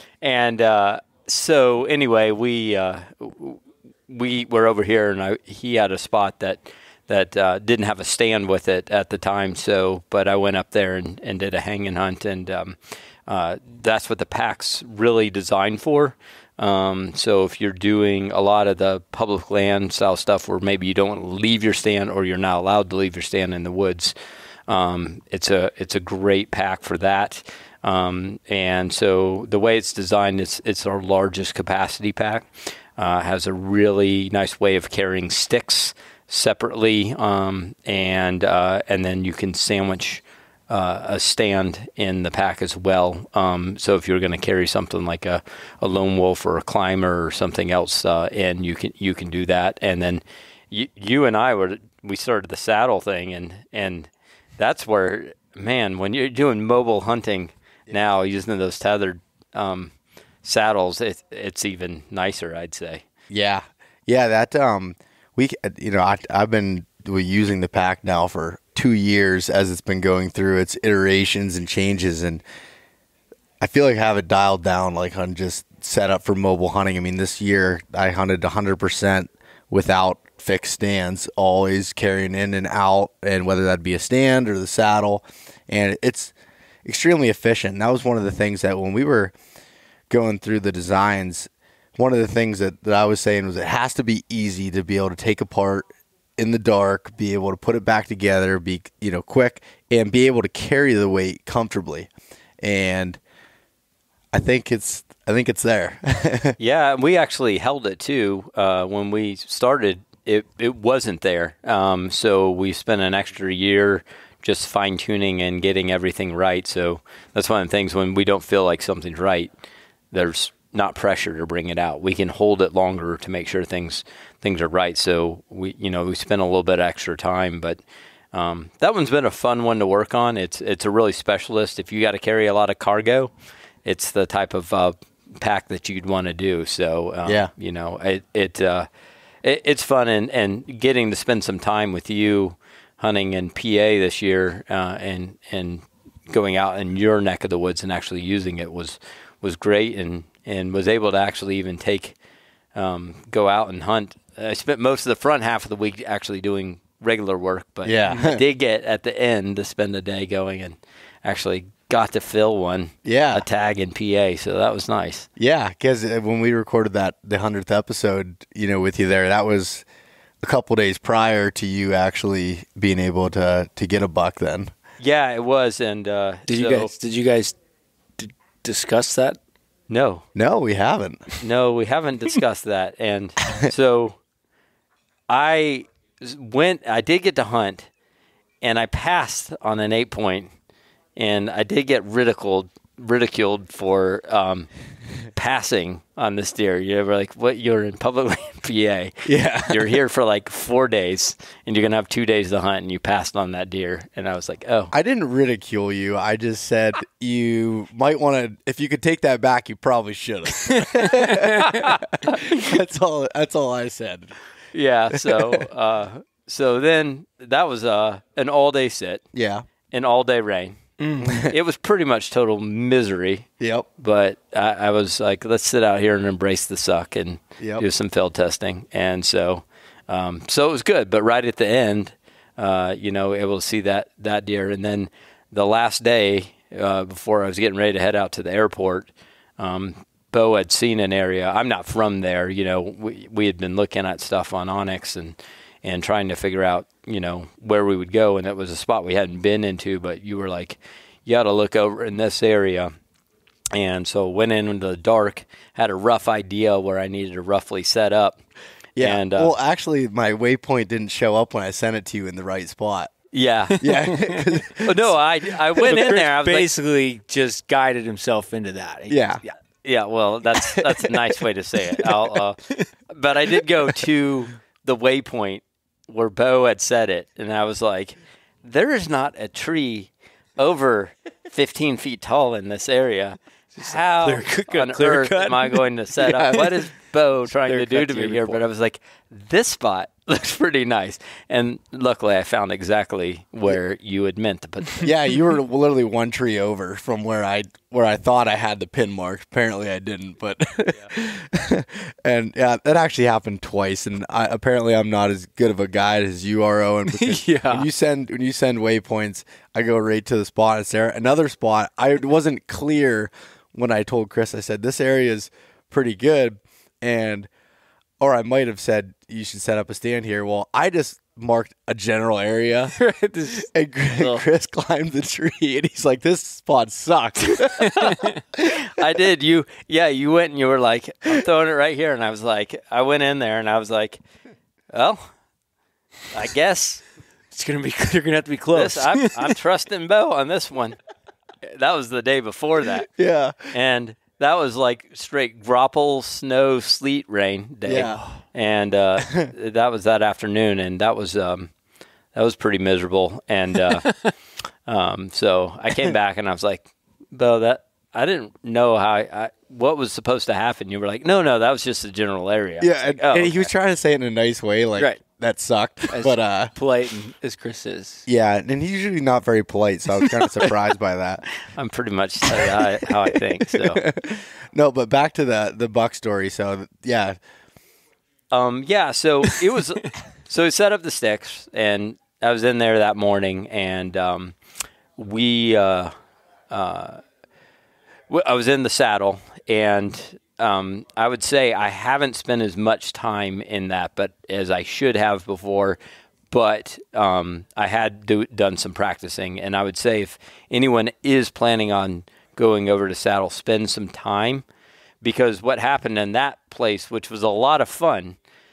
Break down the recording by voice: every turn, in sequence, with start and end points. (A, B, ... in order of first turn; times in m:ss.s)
0:00.2-0:24.1 A
0:24.7-0:59.9 A
1:00.4-1:03.0 A
1:03.3-1:12.4 B
1:13.6-1:26.3 B
1:26.9-1:29.3 B
1:30.1-1:35.9 B
1:36.4-1:42.1 B
1:42.6-1:43.2 B
1:44.3-1:46.6 B
1:46.6-1:59.5 A
2:00.1-2:07.8 A
2:08.3-2:13.3 A
2:13.8-2:18.9 A
2:17.2-2:17.5 B
2:19.4-2:32.2 A
2:32.8-2:45.3 A
2:37.8-2:38.4 B
2:43.0-2:43.5 B
2:45.4-2:49.8 B
2:50.4-2:54.7 B
2:55.0-2:56.9 A
2:56.5-2:57.6 C
2:58.2-2:59.4 C
2:59.9-3:00.2 A
3:00.4-3:01.2 B
3:01.4-3:04.2 A
3:05.3-3:07.9 A
3:08.6-3:10.5 A
3:11.2-3:14.7 A
3:15.3-3:24.9 A
3:19.2-3:20.0 B
3:24.9-3:34.3 B
3:30.8-3:31.9 C
3:34.7-3:39.2 A
3:35.2-3:35.6 B
3:39.3-3:39.7 B
3:39.9-3:40.8 A
3:41.0-3:41.4 C
3:41.2-3:41.6 B
3:41.4-4:12.9 A
3:43.6-3:43.9 B
3:47.6-3:47.9 B
4:13.7-4:18.4 A
4:19.0-4:23.1 B
4:19.0-4:19.6 A
4:23.3-4:24.2 A
4:23.8-4:26.0 B
4:24.1-4:24.4 C
4:24.8-4:26.7 A
4:25.8-4:29.5 C
4:29.1-4:29.4 B
4:29.8-4:55.1 A
4:30.8-4:31.1 B
4:43.8-4:46.9 C
4:47.4-4:48.6 C
4:55.0-5:17.5 B
5:07.1-5:07.9 C
5:18.2-5:22.9 B
5:22.9-5:24.4 C
5:23.6-5:28.7 B
5:27.8-5:28.4 C
5:28.0-5:34.2 A
5:34.9-5:35.3 A
5:36.3-5:37.0 A
5:37.5-5:39.5 C
5:38.7-5:41.0 A
5:41.6-5:43.1 A
5:43.2-5:43.7 B
5:43.7-5:51.7 A
5:47.8-5:48.2 B
5:47.9-5:48.3 C
5:52.3-5:54.2 A
5:54.9-6:03.7 A
6:02.8-6:06.7 B
6:06.1-6:08.2 C
6:08.3-6:11.5 B
6:11.7-6:14.0 A
6:12.5-6:17.4 B
6:18.5-6:24.6 A
6:25.2-6:26.1 A
6:26.7-6:27.2 A
6:28.3-6:36.0 A
6:36.5-6:44.6 A
6:45.2-6:48.4 A